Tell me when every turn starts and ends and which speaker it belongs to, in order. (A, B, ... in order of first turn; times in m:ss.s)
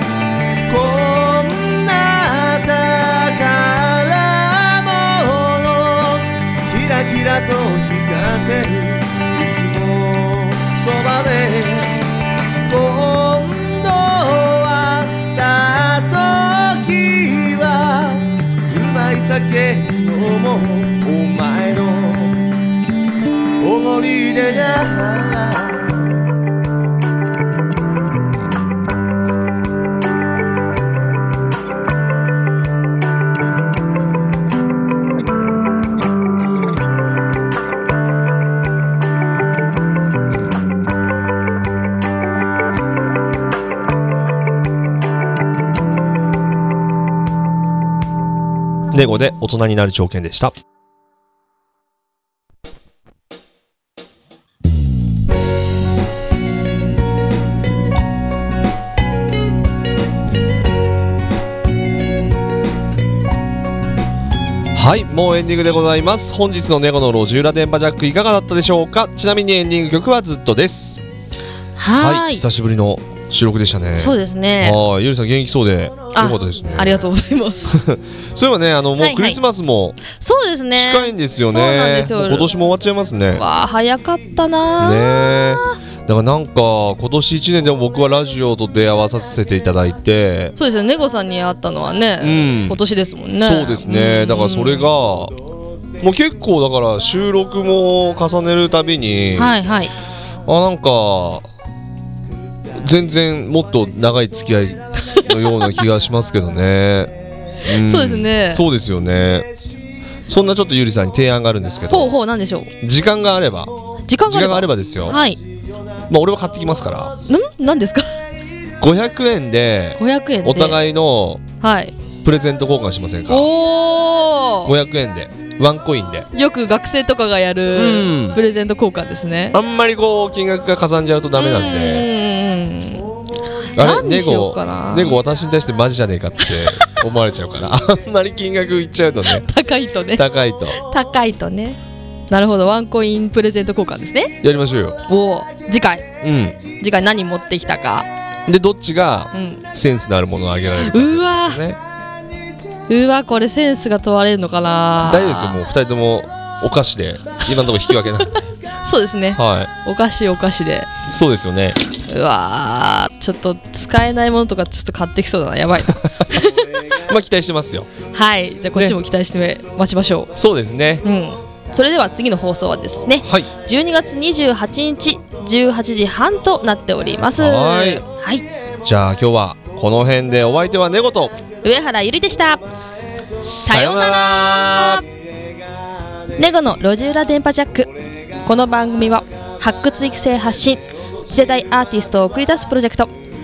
0:00.7-0:12.1 A
0:12.7-0:22.5 A
0:23.6-0:26.3 A
0:48.9-0:50.5 B
1:04.7-1:11.0 B
1:11.8-1:12.4 C
1:12.0-1:14.1 B
1:14.0-1:14.8 C
1:14.6-1:16.8 B
1:16.1-1:17.8 C
1:18.4-1:20.0 B
1:19.0-1:19.4 C
1:20.0-1:22.5 C
1:20.8-1:23.4 B
1:23.3-1:25.8 C
1:24.8-1:30.5 B
1:30.6-1:34.9 C
1:32.2-1:32.8 B
1:33.4-1:35.3 B
1:36.0-1:39.5 B
1:39.3-1:39.9 C
1:40.5-1:41.4 B
1:42.8-1:47.1 B
1:45.2-1:45.7 C
1:47.7-1:49.4 B
1:47.7-1:48.6 C
1:50.3-1:52.0 B
1:51.9-1:52.7 C
1:52.8-1:53.7 B
1:54.1-1:55.4 C
1:54.3-1:55.2 B
1:56.1-1:57.1 B
1:57.3-1:58.1 C
1:58.8-2:01.4 B
2:00.0-2:00.8 C
2:01.6-2:01.9 C
2:02.2-2:03.5 B
2:03.3-2:04.8 C
2:04.7-2:06.3 B
2:06.3-2:09.6 C
2:07.8-2:08.4 B
2:09.5-2:12.0 B
2:11.4-2:13.0 C
2:13.7-2:15.2 C
2:13.8-2:19.4 B
2:16.4-2:16.9 C
2:19.2-2:21.8 C
2:20.2-2:20.8 B
2:22.3-2:24.4 C
2:24.4-2:25.0 B
2:25.0-2:26.1 C
2:26.2-2:26.6 B
2:26.8-2:28.1 C
2:28.5-2:31.8 B
2:29.3-2:29.6 C
2:30.8-2:31.6 C
2:32.9-2:35.6 C
2:35.0-2:38.3 B
2:38.8-2:40.9 C
2:39.4-2:39.7 B
2:41.1-2:41.8 B
2:42.1-2:46.7 C
2:47.1-2:47.9 B
2:48.1-2:50.3 C
2:50.4-2:51.0 B
2:51.0-2:58.4 C
2:57.4-2:58.0 B
2:58.8-3:01.4 B
3:01.6-3:02.6 C
3:03.6-3:04.8 B
3:03.6-3:05.0 C
3:06.4-3:07.9 C
3:08.4-3:13.1 C